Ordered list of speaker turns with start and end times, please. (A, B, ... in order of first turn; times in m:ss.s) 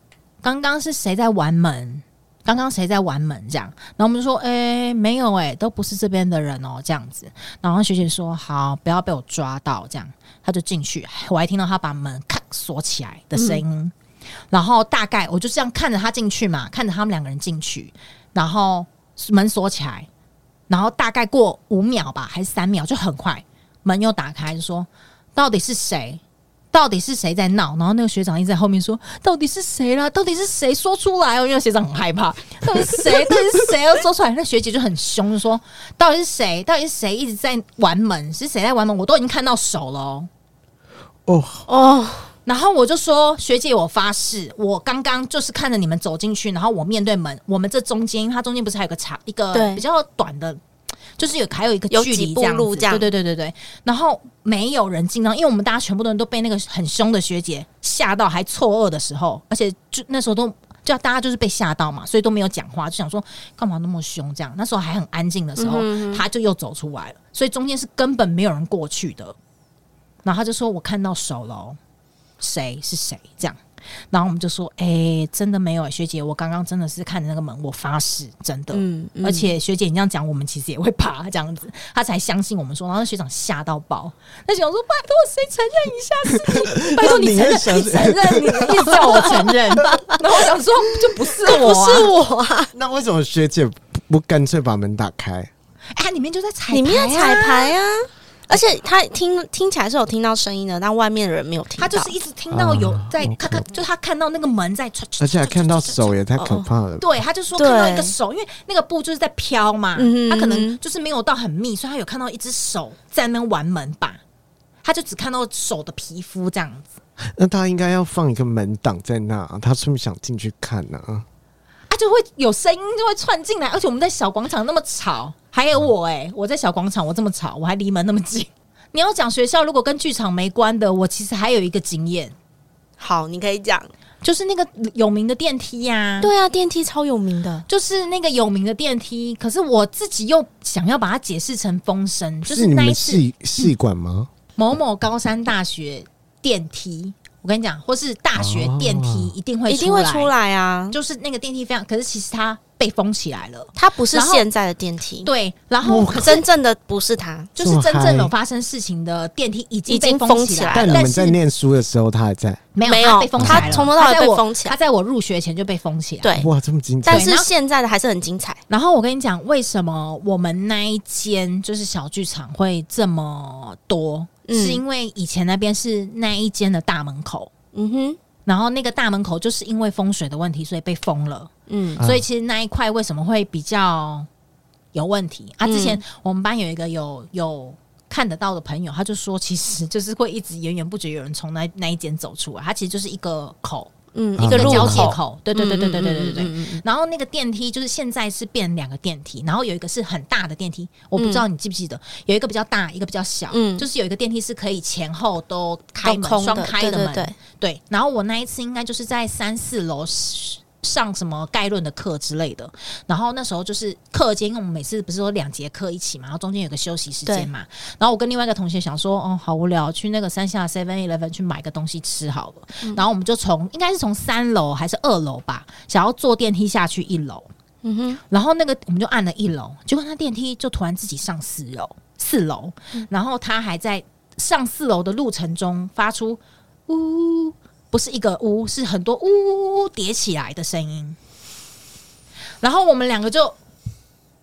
0:00.4-0:13.9 A
0:13.4-0:13.6 B
0:14.5-0:20.1 A
0:20.7-0:26.2 A
0:26.7-0:40.3 A
0:41.3-0:41.7 C
0:41.7-0:42.3 B
0:42.5-0:50.6 A
0:49.5-0:49.8 B
0:51.2-1:09.4 A
0:51.9-0:53.1 B
1:05.6-1:06.2 B
1:10.2-1:11.8 A
1:12.4-1:32.1 A
1:18.7-1:19.6 B
1:26.4-1:29.5 C
1:31.4-1:32.7 B
1:32.7-1:35.5 C
1:36.0-1:37.8 A
1:36.7-1:42.1 B
1:41.8-1:46.2 A
1:42.5-1:43.7 C
1:45.2-1:47.1 C
1:46.4-1:46.7 B
1:47.0-1:54.2 A
1:47.6-1:48.1 B
1:50.0-1:50.8 B
1:54.8-1:57.0 A
1:57.2-2:01.3 C
2:01.9-2:12.3 A
2:13.0-2:13.9 B
2:14.2-2:16.3 A
2:16.2-2:17.7 B
2:17.7-2:23.7 A
2:22.4-2:24.3 C
2:24.6-2:30.3 A
2:28.4-2:29.3 C
2:29.7-2:31.0 B
2:30.9-2:34.4 A
2:33.8-2:35.3 B
2:35.2-2:36.4 A
2:35.8-2:36.4 C
2:36.2-2:37.5 B
2:37.6-2:41.4 A
2:37.6-2:38.3 C
2:39.9-2:41.0 B
2:40.7-2:42.6 C
2:42.8-2:46.4 A
2:42.9-2:44.8 B
2:43.4-2:43.9 C
2:46.4-2:47.3 C
2:47.0-2:48.6 B
2:47.1-2:47.5 A
2:48.7-2:57.5 A
2:54.5-2:54.8 B
2:57.7-2:58.2 B
2:58.5-3:04.3 A
3:01.7-3:02.0 B
3:02.0-3:02.2 C
3:04.9-3:13.9 A
3:05.6-3:06.0 B
3:14.1-3:16.8 B
3:14.4-3:15.1 C
3:14.5-3:47.5 A
3:21.2-3:21.4 B
3:23.5-3:23.9 B
3:26.0-3:27.4 B
3:47.8-3:48.2 B
3:48.3-4:01.2 A
4:02.6-4:03.6 A